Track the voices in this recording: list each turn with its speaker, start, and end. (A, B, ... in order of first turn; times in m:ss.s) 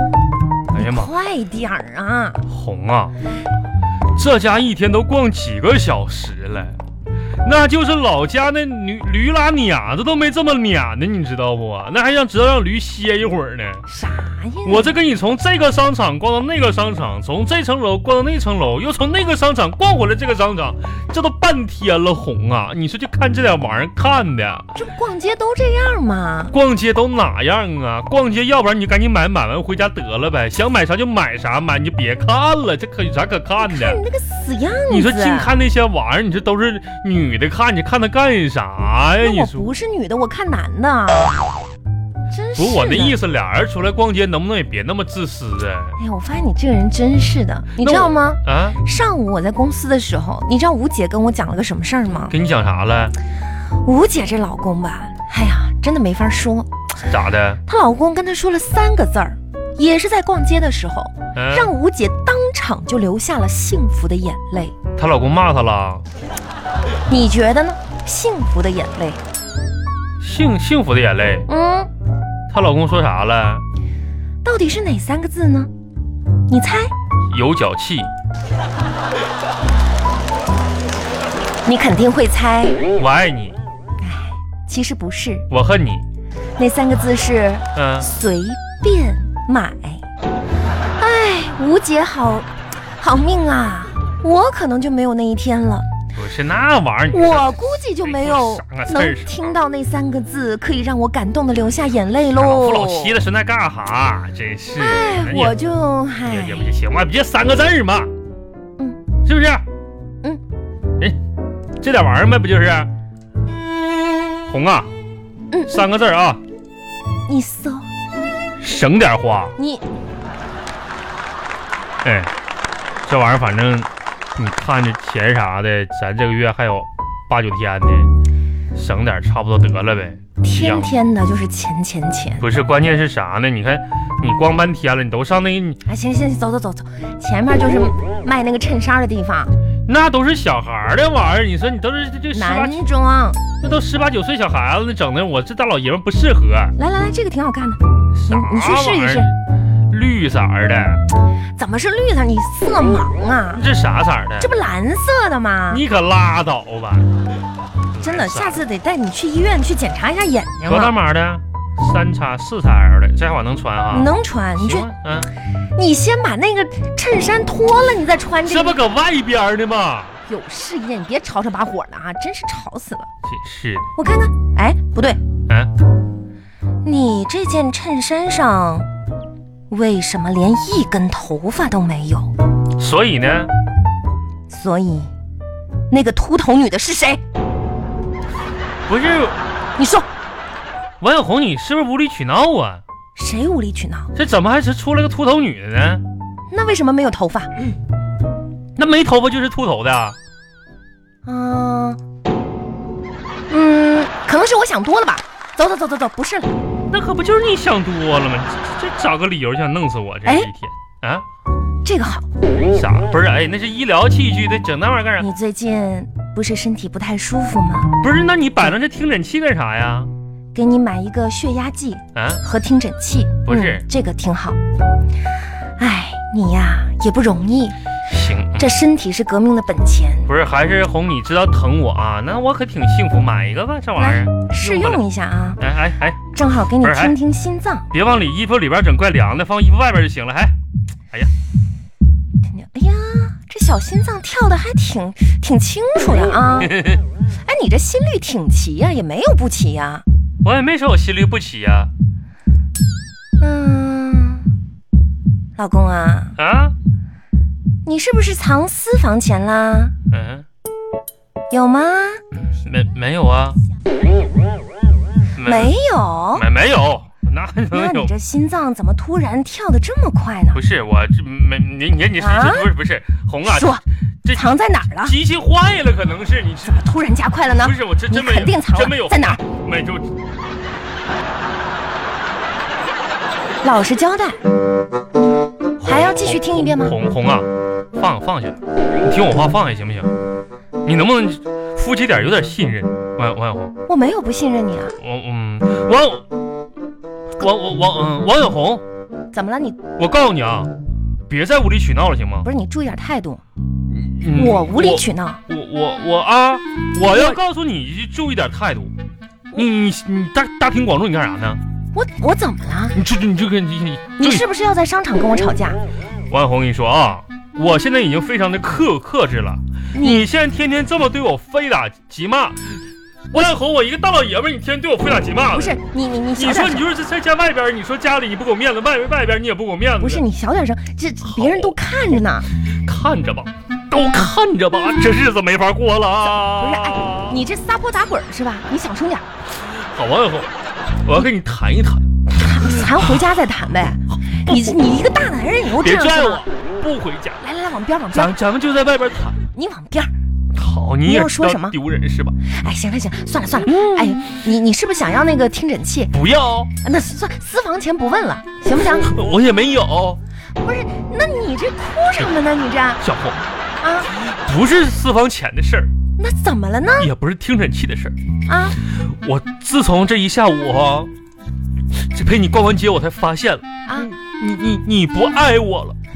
0:00.7-0:01.1 A
0:00.8-0:02.5 B
0:02.5-0:03.1 A
0:04.2-0:06.8 A
0:07.4-0:13.9 A
0:13.9-0:14.9 B
0:14.6-0:24.7 A
0:24.8-0:26.6 B
0:26.5-0:34.0 A
0:33.6-0:35.5 B
0:34.9-0:39.7 A
0:39.2-0:41.5 B
0:42.3-0:43.2 B
0:42.6-0:46.0 A
0:46.0-0:52.3 B
0:47.8-0:48.8 A
0:52.3-0:53.2 A
0:53.8-0:56.7 B
0:57.1-0:57.6 A
0:57.7-1:04.8 B
1:01.4-1:01.7 A
1:05.0-1:06.0 A
1:07.1-1:09.2 B
1:10.2-1:11.5 A
1:11.5-1:11.9 B
1:12.5-1:13.6 A
1:14.4-1:15.7 B
1:16.5-1:16.9 B
1:17.3-1:18.1 A
1:21.6-1:22.8 B
1:22.9-1:23.6 A
1:24.0-1:25.5 B
1:25.5-1:26.0 A
1:26.6-1:30.0 B
1:27.8-1:28.1 A
1:31.0-1:35.9 B
1:36.2-1:39.6 A
1:37.1-1:43.2 B
1:42.3-1:45.6 A
1:44.8-1:46.7 B
1:46.3-1:48.1 A
1:49.2-1:49.6 A
1:51.8-1:52.9 A
1:54.2-1:54.9 A
1:55.7-1:56.4 A
1:57.3-1:57.9 B
1:58.6-1:59.5 A
1:59.6-1:59.8 B
2:02.0-2:02.3 A
2:03.1-2:08.1 A
2:08.7-2:10.9 A
2:10.4-2:12.5 B
2:12.4-2:15.8 A
2:15.8-2:19.5 B
2:19.9-2:22.8 A
2:22.3-2:23.4 B
2:23.6-2:26.8 A
2:26.8-2:29.3 B
2:28.2-2:31.0 A
2:31.6-2:33.6 B
2:33.6-2:34.5 A
2:34.4-2:35.8 B
2:35.7-2:37.1 A
2:37.9-2:38.6 A
2:38.0-2:41.0 B
2:40.7-2:45.3 A
2:43.9-2:44.9 B
2:45.5-2:48.8 B
2:48.5-2:50.2 A
2:50.3-2:53.1 B
2:53.2-2:53.9 A
2:54.0-2:55.2 B
2:56.8-2:58.9 B
2:59.7-3:02.3 B
3:02.8-3:03.5 A
3:04.5-3:05.1 B
3:05.9-3:07.2 B
3:08.9-3:09.4 A
3:09.8-3:10.1 B
3:11.0-3:12.8 A
3:13.2-3:14.1 B
3:14.2-3:16.0 A
3:16.5-3:17.5 B
3:18.8-3:20.2 A
3:21.2-3:22.0 B
3:23.5-3:26.6 B
3:26.9-3:31.2 A
3:31.8-3:32.3 B
3:32.7-3:35.3 A
3:35.2-3:38.0 B
3:38.0-3:40.1 A
3:40.6-3:44.6 B
3:42.2-3:42.4 A
3:43.5-3:43.8 A
3:45.8-3:47.8 B
3:48.1-3:48.8 A
3:48.6-3:50.3 B
3:50.3-3:55.0 A
3:54.0-3:55.6 B
3:55.6-3:56.3 A
3:56.3-3:57.9 B
3:56.8-3:57.2 A
3:57.9-4:00.6 A
4:02.5-4:06.8 B
4:06.6-4:07.0 A
4:07.4-4:10.0 B
4:10.4-4:11.9 A
4:13.4-4:14.5 B
4:15.6-4:16.4 B
4:16.4-4:16.8 A
4:17.9-4:19.9 B
4:20.1-4:20.4 A
4:21.5-4:22.2 B
4:22.5-4:23.6 A
4:25.4-4:25.7 A
4:25.4-4:26.4 B
4:26.4-4:28.1 A
4:27.7-4:30.6 B
4:30.5-4:33.7 A
4:32.2-4:32.7 B
4:33.4-4:35.2 B
4:34.2-4:36.9 A
4:36.7-4:39.4 B
4:37.5-4:40.1 A
4:43.6-4:44.4 B
4:45.8-4:50.1 A
4:45.8-4:47.0 B
4:50.8-4:53.7 A
4:53.9-4:55.0 B
4:55.0-4:56.2 A
4:57.4-4:58.8 A
4:59.3-4:59.8 B
5:00.0-5:00.7 A
5:01.3-5:02.5 A
5:02.4-5:03.4 B
5:03.9-5:08.9 A
5:04.3-5:05.4 B
5:07.1-5:07.4 B
5:09.5-5:11.6 A
5:11.9-5:13.0 B
5:13.0-5:14.4 A
5:14.2-5:15.8 B
5:16.3-5:22.6 A
5:19.9-5:20.3 B
5:23.3-5:25.8 A
5:25.5-5:26.9 B
5:26.4-5:30.2 A
5:30.0-5:32.5 B
5:31.2-5:31.8 A
5:32.7-5:37.4 A
5:36.3-5:39.3 B
5:39.5-5:40.5 A
5:41.0-5:42.1 A
5:42.3-5:46.4 B
5:42.9-5:43.2 A
5:44.5-5:44.8 A
5:45.8-5:47.4 A
5:47.4-5:48.3 B
5:48.1-5:49.4 A
5:49.5-5:50.1 B
5:50.5-5:52.4 A
5:51.1-5:51.8 B
5:52.4-5:56.1 B
5:53.7-5:54.2 A
5:56.1-5:56.7 A
5:56.8-5:59.1 B
5:59.0-6:00.2 A
6:00.6-6:03.0 B
6:03.0-6:03.5 A
6:03.8-6:04.1 B
6:04.1-6:05.9 A
6:06.2-6:07.1 B
6:07.0-6:08.2 A
6:08.5-6:08.8 B
6:08.9-6:11.1 A
6:11.9-6:13.6 A
6:13.9-6:14.2 B
6:14.2-6:16.0 A